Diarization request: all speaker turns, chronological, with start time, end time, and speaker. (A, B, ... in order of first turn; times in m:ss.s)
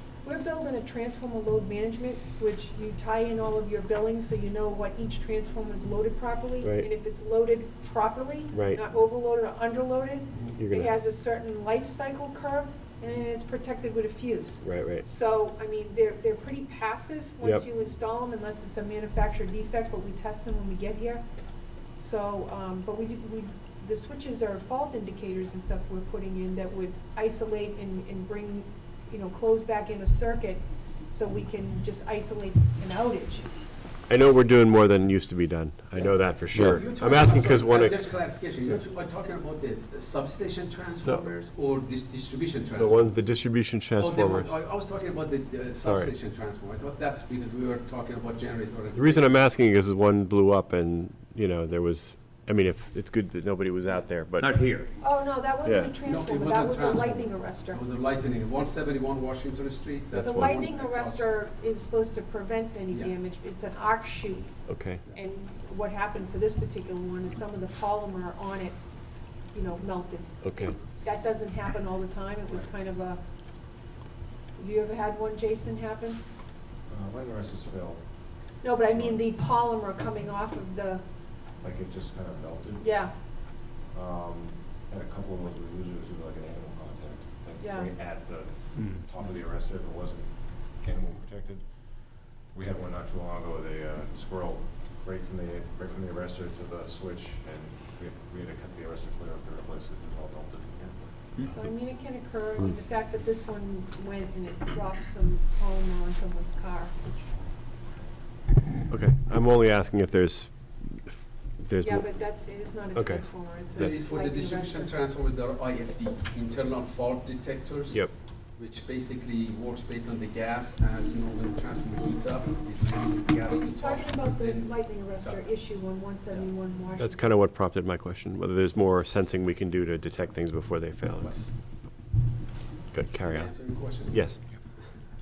0:00.2-0:21.2 A
0:06.6-0:06.9 B
0:08.5-0:08.8 B
0:10.5-0:10.9 B
0:14.6-0:15.0 B
0:22.0-0:33.4 A
0:34.1-0:38.2 B
0:35.9-0:43.2 C
0:42.8-0:44.6 B
0:44.0-0:49.4 C
0:45.8-0:46.1 B
0:48.9-0:54.5 B
0:53.9-0:54.9 C
0:55.0-0:57.8 A
0:55.6-0:55.9 B
0:56.0-1:01.3 C
1:00.1-1:00.6 B
1:00.2-1:08.8 A
1:04.7-1:05.0 B
1:09.5-1:13.2 A
1:10.4-1:10.7 B
1:14.6-1:16.2 A
1:16.9-1:18.0 D
1:18.6-1:21.0 A
1:18.9-1:19.2 D
1:21.6-1:22.9 D
1:22.8-1:23.1 A
1:23.9-1:31.7 D
1:27.6-1:27.9 A
1:32.5-1:41.5 D
1:41.5-1:47.2 A
1:48.9-1:52.1 B
1:51.8-1:54.9 A
1:52.9-1:53.9 B
1:53.8-2:05.5 C
2:03.4-2:07.2 A
2:07.0-2:11.5 B
2:12.9-2:14.4 B
2:13.2-2:15.0 C